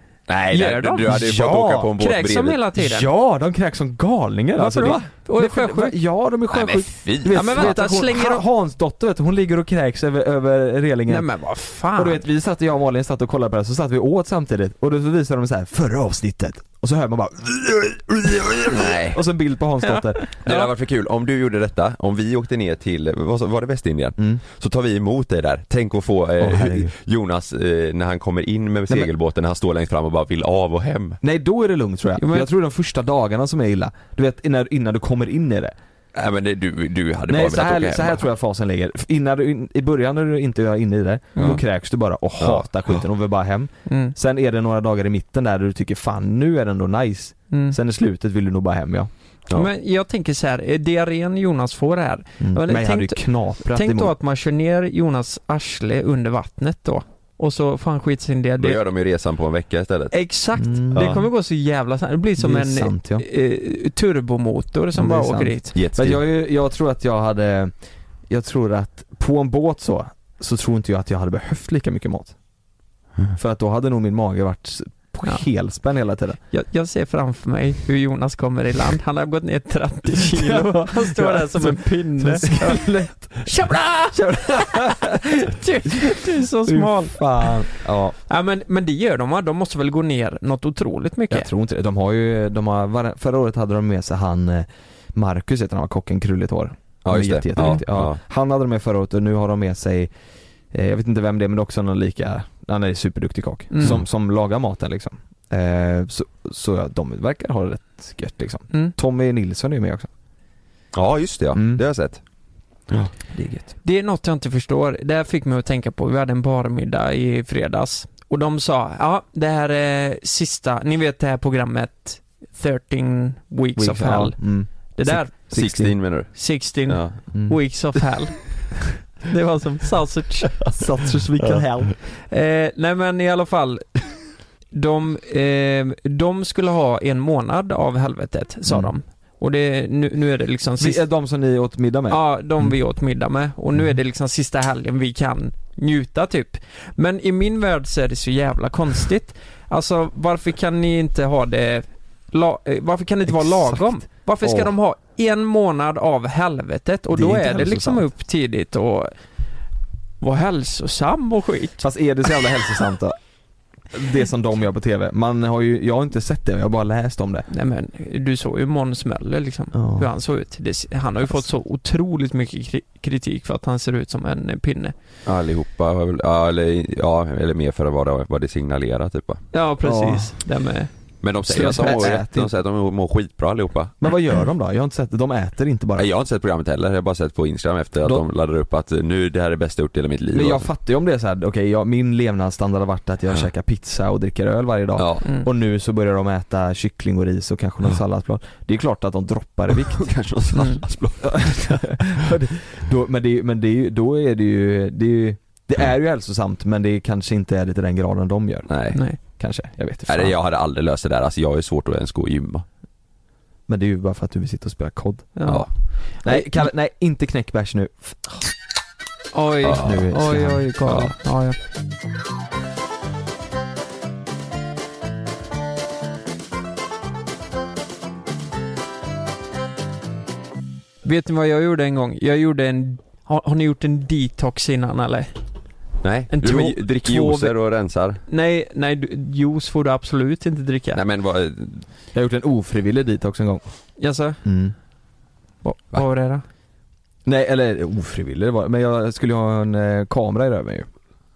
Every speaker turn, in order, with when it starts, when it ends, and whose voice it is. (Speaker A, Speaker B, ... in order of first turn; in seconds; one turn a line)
Speaker A: 0.3-2.6
Speaker B: 0.5-1.2
Speaker C: 1.1-1.9
Speaker B: 2.0-3.1
Speaker C: 2.8-11.3
Speaker B: 4.6-6.0
Speaker A: 4.8-5.1
Speaker A: 6.5-7.7
Speaker B: 7.3-8.4
Speaker B: 11.1-12.2
Speaker C: 11.9-20.3
Speaker A: 18.7-19.2
Speaker B: 20.3-20.7
Speaker A: 20.4-31.2
Speaker C: 26.4-26.9
Speaker C: 31.2-35.8
Speaker B: 32.2-32.5
Speaker A: 36.1-38.2
Speaker C: 37.3-49.1
Speaker A: 42.4-42.7
Speaker B: 43.9-44.1
Speaker B: 47.5-47.8
Speaker B: 49.5-58.8
Speaker C: 52.4-54.1
Speaker A: 58.6-60.1
Speaker B: 60.1-65.7
Speaker C: 60.6-61.3
Speaker A: 60.9-61.3
Speaker C: 62.4-63.2
Speaker C: 65.0-67.7
Speaker A: 65.8-66.2
Speaker C: 68.3-72.4
Speaker C: 73.3-76.4
Speaker B: 76.5-87.6
Speaker C: 80.1-83.5
Speaker C: 84.1-85.2
Speaker C: 85.9-88.2
Speaker B: 88.3-91.5
Speaker C: 91.3-100.1
Speaker A: 97.0-98.2
Speaker B: 97.6-97.8
Speaker C: 100.7-110.1
Speaker B: 103.7-104.0
Speaker A: 110.9-112.2
Speaker C: 111.5-111.8
Speaker C: 113.3-113.7
Speaker B: 113.8-124.4
Speaker C: 123.8-126.0
Speaker B: 125.0-125.3
Speaker A: 125.5-126.3
Speaker B: 126.3-128.6
Speaker A: 126.9-127.2
Speaker C: 127.3-127.6
Speaker B: 129.2-130.6
Speaker C: 130.7-131.9
Speaker B: 132.3-134.2
Speaker B: 134.7-141.0
Speaker C: 138.7-138.9
Speaker C: 140.8-142.7
Speaker B: 142.1-159.1
Speaker C: 154.4-154.7
Speaker C: 157.1-158.1
Speaker B: 160.2-161.8
Speaker C: 161.8-163.2
Speaker C: 163.9-167.5
Speaker B: 167.5-174.9
Speaker C: 169.7-170.1
Speaker A: 175.3-179.4
Speaker B: 179.5-180.9
Speaker C: 179.8-180.3
Speaker A: 181.2-184.1
Speaker C: 181.5-182.5
Speaker B: 181.5-182.1
Speaker C: 184.0-186.1
Speaker A: 186.0-190.7
Speaker C: 190.3-200.1
Speaker A: 195.0-195.3
Speaker A: 199.7-202.0
Speaker C: 201.2-210.3
Speaker A: 208.7-209.0
Speaker A: 210.1-212.7
Speaker C: 213.7-215.4
Speaker B: 215.4-215.7
Speaker C: 216.2-218.3
Speaker B: 219.3-221.6
Speaker A: 219.6-220.0
Speaker C: 219.8-220.7
Speaker A: 220.9-221.1
Speaker B: 231.0-235.4
Speaker A: 236.0-238.2
Speaker B: 236.3-237.6
Speaker B: 238.3-241.0
Speaker A: 240.9-241.8
Speaker C: 242.1-243.6
Speaker B: 244.0-244.4
Speaker C: 244.4-244.8
Speaker B: 245.6-246.4
Speaker C: 247.2-250.9